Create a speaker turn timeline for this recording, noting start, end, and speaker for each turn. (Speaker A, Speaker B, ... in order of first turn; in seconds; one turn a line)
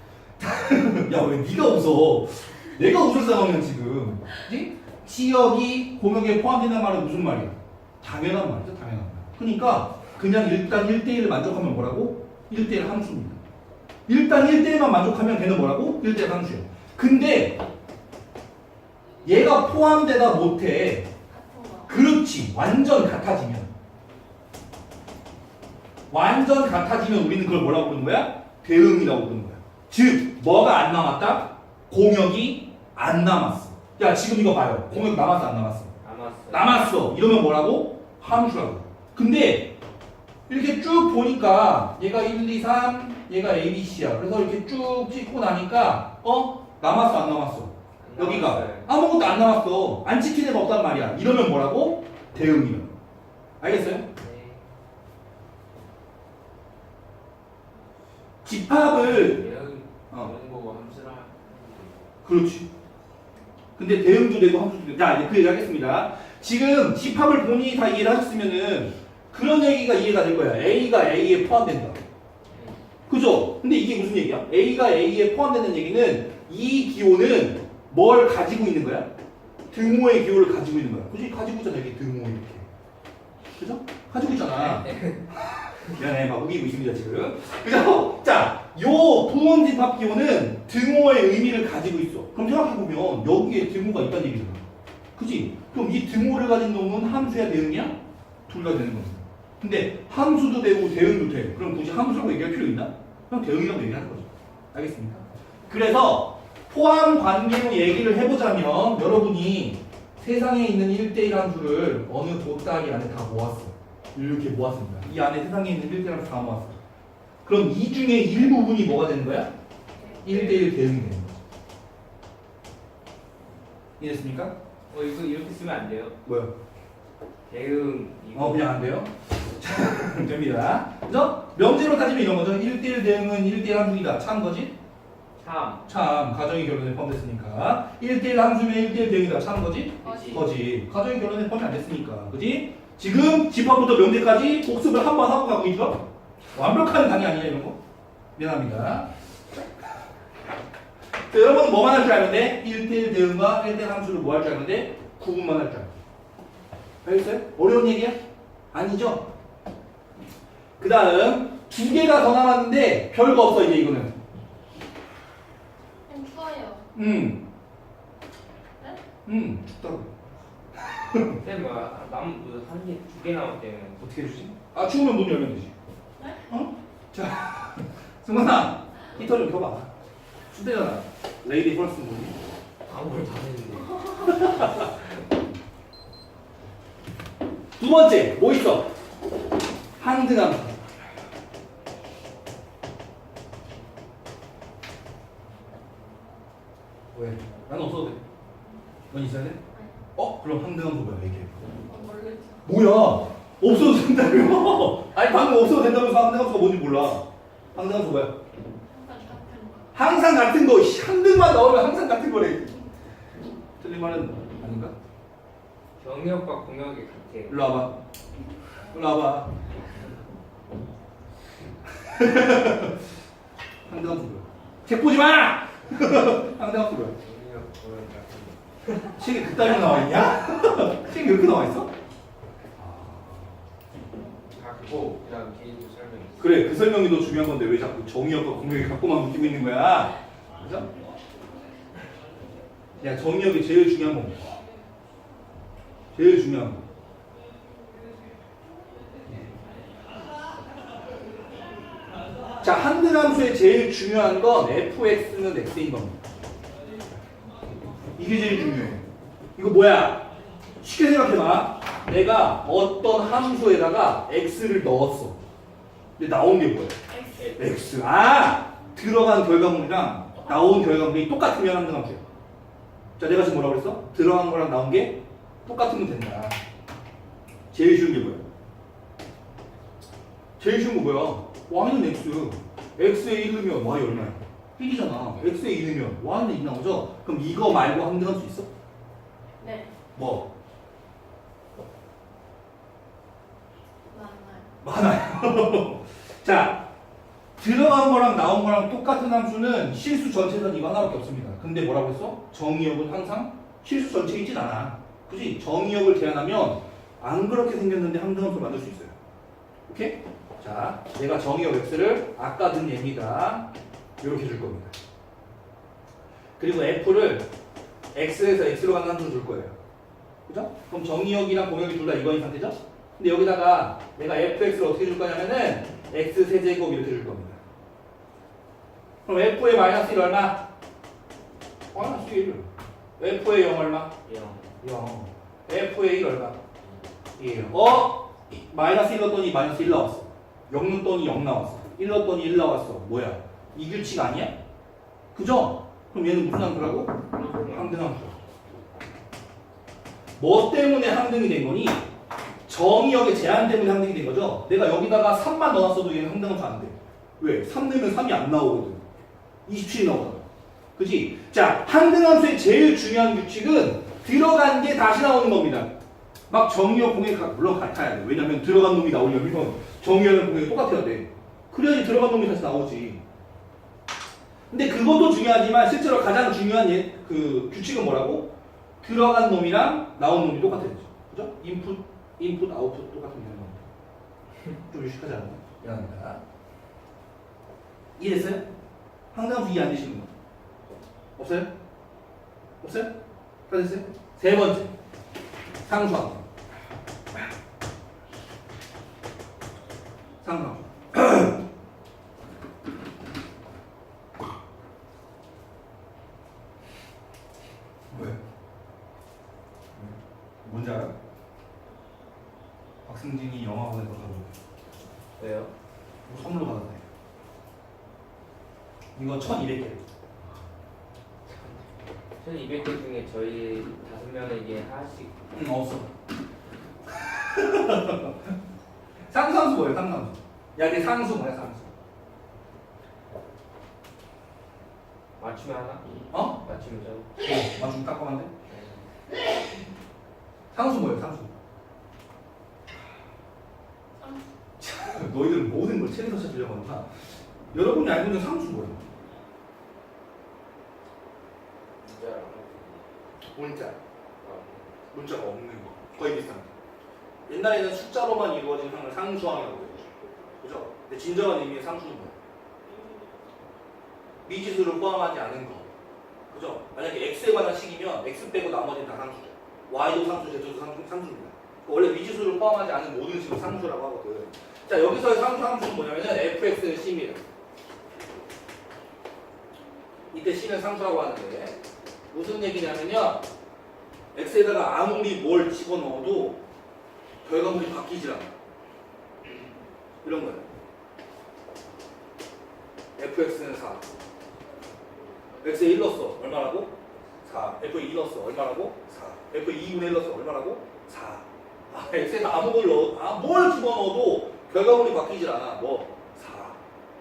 Speaker A: 0.4-13.4
Speaker A: 14.1-17.6
Speaker A: 19.2-21.1
Speaker B: 21.3-22.0
Speaker A: 21.9-23.7
Speaker A: 26.1-35.9
Speaker C: 36.0-36.9
Speaker A: 36.5-39.7
Speaker A: 40.5-52.9
Speaker C: 48.0-48.9
Speaker A: 53.6-54.1
Speaker C: 54.1-54.6
Speaker A: 58.4-59.4
Speaker C: 58.9-62.1
Speaker A: 62.2-62.7
Speaker A: 63.8-72.0
Speaker C: 72.5-72.8
Speaker A: 73.1-79.1
Speaker A: 79.7-82.7
Speaker A: 83.6-94.6
Speaker C: 84.4-85.2
Speaker A: 95.2-116.8
Speaker A: 117.4-119.5
Speaker A: 120.2-121.3
Speaker C: 120.2-120.7
Speaker A: 124.0-124.5
Speaker C: 124.9-126.2
Speaker A: 126.2-126.5
Speaker C: 127.5-128.8
Speaker A: 128.3-134.7
Speaker C: 135.4-135.9
Speaker A: 135.8-147.8
Speaker C: 140.0-140.4
Speaker A: 148.4-149.1
Speaker A: 151.3-155.9
Speaker A: 157.0-158.2
Speaker A: 158.7-159.3
Speaker A: 160.8-164.1
Speaker B: 166.1-166.8
Speaker A: 166.9-167.4
Speaker A: 169.2-170.1
Speaker A: 170.8-171.4
Speaker C: 171.2-174.1
Speaker A: 174.0-175.7
Speaker A: 176.5-179.9
Speaker A: 180.5-182.4
Speaker C: 182.8-185.1
Speaker A: 184.2-184.9
Speaker A: 187.8-188.9
Speaker A: 190.0-190.8
Speaker A: 197.1-198.2
Speaker A: 199.1-199.6
Speaker A: 200.2-201.6
Speaker B: 201.9-202.7
Speaker A: 202.6-208.3
Speaker B: 208.8-209.9
Speaker A: 209.9-212.8
Speaker A: 213.8-214.9
Speaker C: 216.0-217.6
Speaker A: 217.5-218.0
Speaker A: 218.8-219.5
Speaker A: 222.0-223.0
Speaker A: 223.9-227.1
Speaker C: 227.2-229.1
Speaker A: 229.1-231.9
Speaker A: 232.8-233.2
Speaker C: 234.5-236.7
Speaker A: 236.4-240.9
Speaker A: 243.0-244.6
Speaker A: 246.1-246.8
Speaker A: 252.6-256.2
Speaker A: 258.1-260.3
Speaker A: 260.8-265.4
Speaker A: 266.2-267.0
Speaker B: 267.2-267.4
Speaker A: 267.5-272.2
Speaker A: 273.2-276.6
Speaker A: 277.7-278.4
Speaker A: 280.6-288.7
Speaker B: 289.6-289.9
Speaker A: 290.1-290.5
Speaker B: 294.1-294.7
Speaker A: 294.8-296.8
Speaker A: 297.6-309.1
Speaker A: 309.9-313.7
Speaker A: 314.2-314.9
Speaker A: 316.6-317.5
Speaker A: 318.1-319.7
Speaker A: 320.5-327.6
Speaker A: 329.2-330.6
Speaker A: 331.9-332.6
Speaker A: 333.2-334.1
Speaker C: 334.2-334.8
Speaker A: 334.8-336.6
Speaker A: 337.4-344.5
Speaker A: 345.3-348.4
Speaker C: 347.1-348.1
Speaker A: 350.4-352.1
Speaker A: 352.7-359.0
Speaker A: 359.6-365.9
Speaker A: 366.5-373.2
Speaker A: 374.7-383.8
Speaker A: 384.9-386.4
Speaker A: 388.2-388.6
Speaker A: 389.3-390.3
Speaker A: 391.4-391.7
Speaker A: 392.8-393.1
Speaker A: 393.7-394.9
Speaker A: 395.8-396.4
Speaker A: 400.4-401.6
Speaker A: 408.1-408.4
Speaker A: 410.6-411.1
Speaker A: 413.0-414.5
Speaker C: 415.4-415.7
Speaker A: 416.3-417.0
Speaker A: 419.1-420.0
Speaker C: 421.5-425.4
Speaker A: 425.5-426.1
Speaker A: 427.1-428.5
Speaker A: 429.3-431.9
Speaker C: 435.4-437.4
Speaker A: 436.3-436.6
Speaker A: 437.4-438.5
Speaker C: 438.6-439.0
Speaker A: 440.7-441.5
Speaker B: 444.2-444.4
Speaker A: 444.8-447.1
Speaker A: 447.7-449.1
Speaker C: 452.0-453.1
Speaker A: 453.5-454.0
Speaker C: 454.4-454.9
Speaker A: 455.1-456.7
Speaker A: 457.5-460.1
Speaker A: 460.6-462.4
Speaker A: 464.4-465.9
Speaker A: 466.5-477.4
Speaker A: 480.3-481.8
Speaker A: 482.3-483.4
Speaker A: 484.3-486.6
Speaker A: 487.4-488.5
Speaker A: 490.2-490.6
Speaker A: 493.2-494.1
Speaker A: 495.6-506.8